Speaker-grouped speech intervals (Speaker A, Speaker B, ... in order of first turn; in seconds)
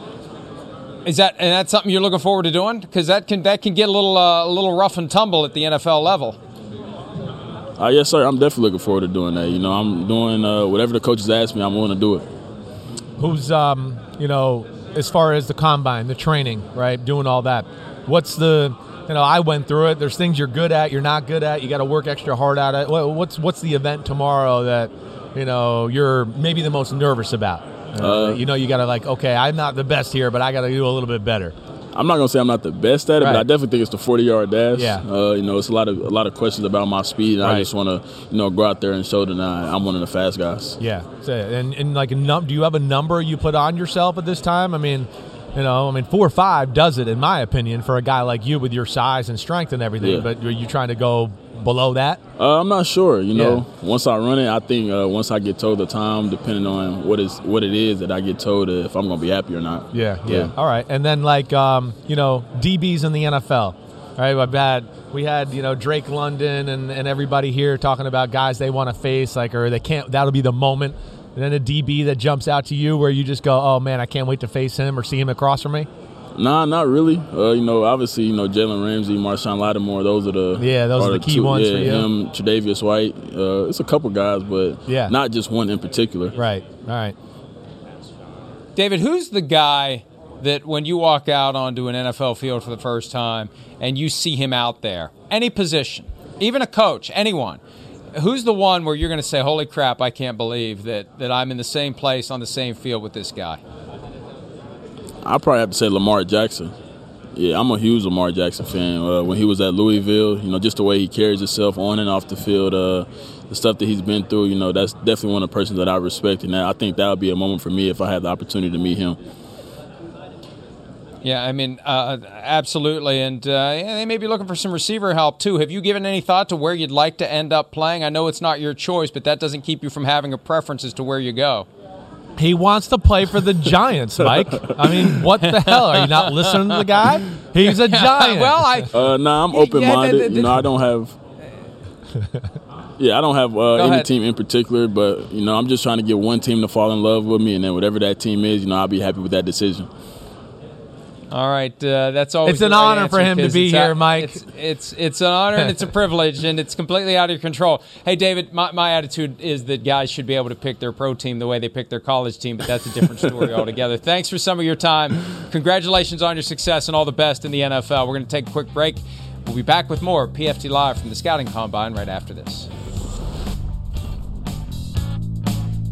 Speaker A: 1.1-6.4, 88.8-97.6, 98.1-103.6, 121.2-131.7, 135.4-137.0, 137.6-138.9, 139.5-140.7, 143.7-144.1, 151.3-172.7
Speaker B: 7.8-12.2, 28.0-28.4, 31.9-40.8, 50.0-50.2, 52.4-60.5, 76.4-86.3, 105.2-106.7, 107.3-119.2, 134.3-135.2, 138.9-141.1, 143.0-149.9
Speaker C: 13.2-31.5, 33.2-33.4, 34.7-35.0, 37.4-37.7, 40.8-52.2, 53.3-53.6, 59.9-75.9, 80.6-82.1, 84.9-85.1, 86.3-87.2, 132.4-138.9, 142.2-142.5, 152.4-154.4